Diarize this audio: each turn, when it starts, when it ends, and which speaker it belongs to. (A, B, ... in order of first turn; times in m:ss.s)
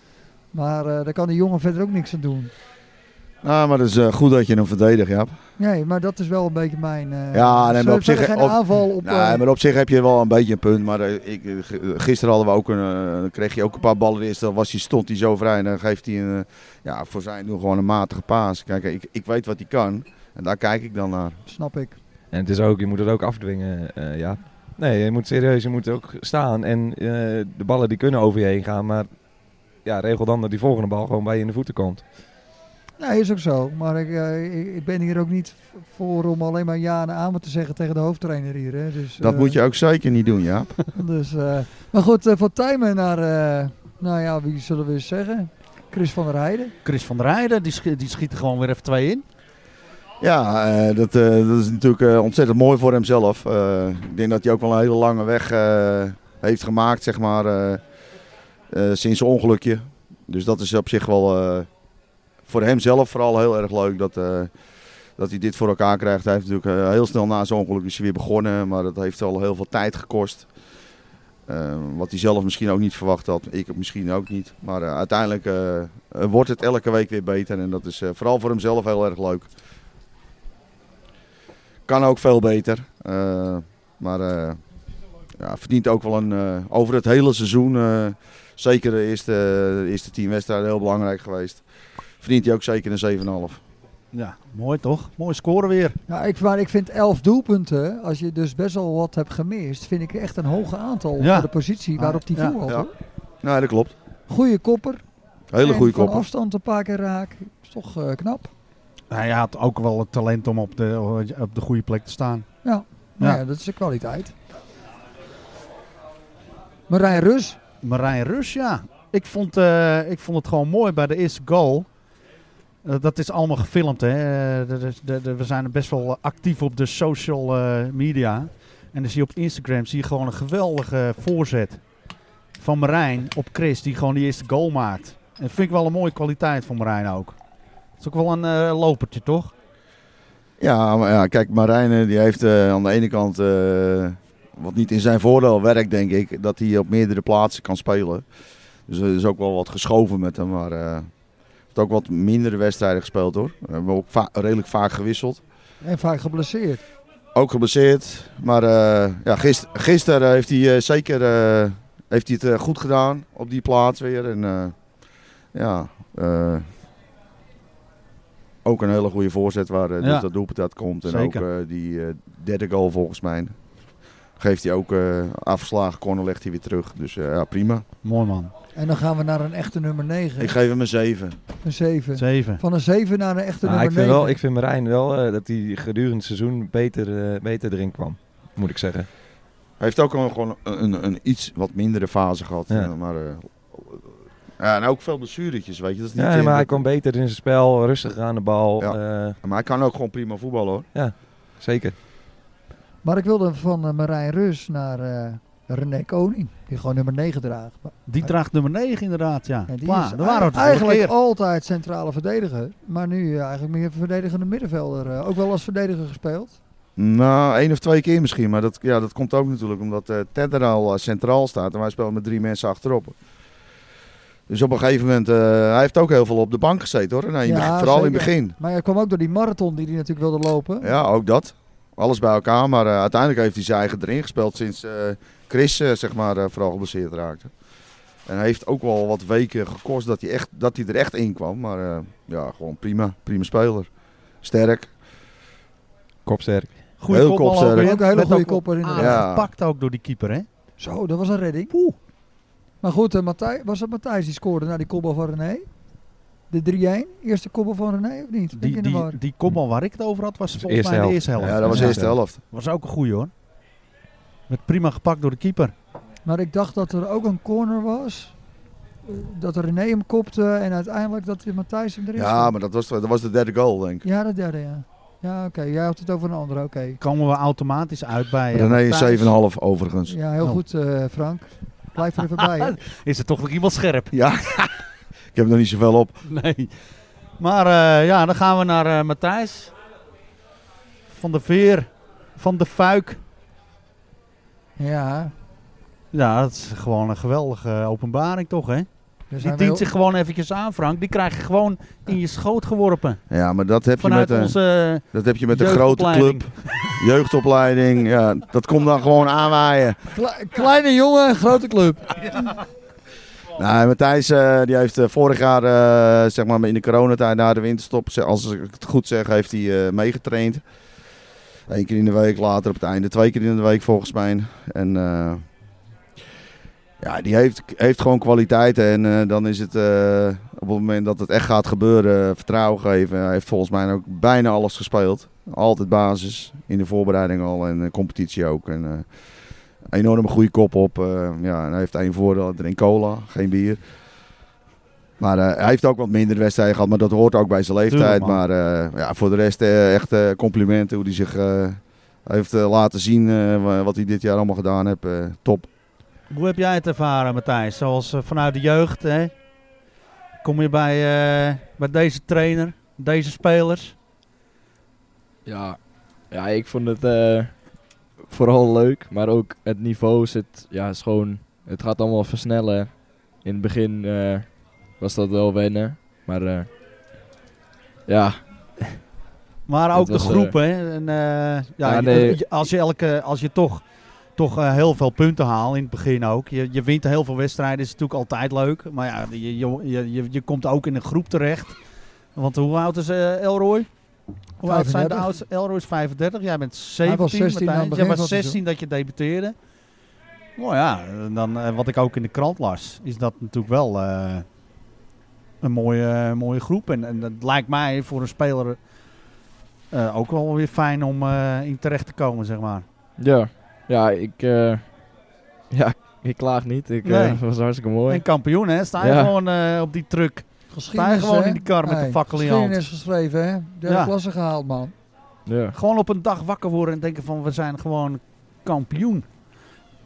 0:00.5-0:02.5 A
0:03.4-0:05.4 B
0:05.6-0:09.4 A
0:07.3-0:21.4 B
0:21.4-0:22.0 A
0:22.3-0:29.1 C
0:29.8-0:32.0 C
0:33.0-0:39.6 A
0:39.2-0:40.8 B
0:40.9-0:46.7 A
0:46.8-0:49.2 D
0:50.2-0:57.8 B
0:58.7-1:01.7 B
1:02.5-1:04.5 B
1:05.2-1:10.4 B
1:11.5-1:19.5 B
1:21.9-1:24.6 B
1:25.4-1:31.6 B
1:32.2-1:33.6 B
1:34.1-1:36.0 D
1:36.1-1:42.9 A
1:41.2-1:42.6 D
1:43.4-1:43.9 B
1:44.3-1:45.0 A
1:45.5-1:46.3 B
1:45.6-1:48.5 A
1:49.1-1:52.5 D
1:52.6-1:54.3 A
1:56.9-1:57.6 A
1:57.8-2:01.9 D
2:02.8-2:11.8 D
2:12.6-2:17.4 D
2:18.0-2:19.5 D
2:20.6-2:28.2 B
2:28.9-2:31.1 B
2:31.7-2:35.4 B
2:35.8-2:36.8 A
2:37.4-2:44.7 B
2:45.5-2:46.6 B
2:48.6-2:53.5 B
2:50.0-2:50.3 D
2:51.0-2:51.4 D
2:54.4-2:57.8 B
2:58.0-2:58.5 D
2:58.8-3:00.5 A
3:00.4-3:01.4 B
3:01.6-3:04.4 A
3:02.2-3:02.6 D
3:03.6-3:09.1 C
3:09.8-3:14.0 B
3:14.6-3:16.8 B
3:16.2-3:19.4 C
3:18.8-3:20.9 B
3:20.9-3:22.0 C
3:23.0-3:28.3 A
3:28.1-3:31.1 D
3:29.7-3:36.6 A
3:37.0-3:43.1 B
3:44.5-3:48.6 B
3:47.4-3:50.9 A
3:50.8-3:57.5 B
3:58.3-4:03.9 B
4:04.4-4:04.9 B
4:06.3-4:06.8 C
4:07.0-4:10.5 D
4:07.1-4:08.0 B
4:07.7-4:09.2 A
4:09.0-4:09.5 B
4:10.8-4:11.7 A
4:11.7-4:12.0 D
4:12.8-4:15.7 A
4:16.5-4:19.2 A
4:18.5-4:23.3 D
4:20.6-4:22.1 C
4:21.4-4:22.4 B
4:24.5-4:25.7 D
4:26.2-4:28.3 A
4:29.0-4:32.5 A
4:32.1-4:34.0 B
4:34.0-4:37.0 A
4:37.0-4:39.4 D
4:38.5-4:40.2 B
4:40.1-4:42.8 A
4:42.3-4:44.1 D
4:44.1-4:44.7 B
4:45.3-4:46.2 B
4:46.2-4:46.7 D
4:47.4-4:49.7 D
4:51.1-4:53.2 D
4:54.8-4:55.3 A
4:56.1-4:58.9 D
4:59.3-4:59.9 A
4:59.4-5:03.2 D
5:03.3-5:04.6 B
5:04.0-5:07.0 D
5:05.1-5:10.0 B
5:10.1-5:12.0 A
5:13.6-5:20.6 B
5:21.7-5:25.4 B
5:27.0-5:39.1 B
5:39.9-5:43.8 B
5:45.2-5:55.7 B
5:47.9-5:48.4 D
5:56.3-5:59.3 D
6:00.4-6:04.0 D
6:05.4-6:16.7 E
6:18.1-6:18.4 E
6:19.7-6:23.8 D
6:19.9-6:20.5 E
6:21.8-6:22.4 E
6:24.4-6:31.8 D
6:32.4-6:33.9 D
6:34.6-6:39.6 D
6:34.6-6:35.3 A
6:37.0-6:38.6 A
6:40.6-6:44.4 D
6:45.6-6:48.8 D
6:49.9-6:52.8 D
6:53.2-6:58.2 E
6:57.0-6:57.4 D
6:58.0-7:02.9 D
6:59.0-6:59.3 E
7:00.7-7:04.9 A
7:03.9-7:04.1 D
7:05.4-7:05.8 E
7:05.7-7:09.2 D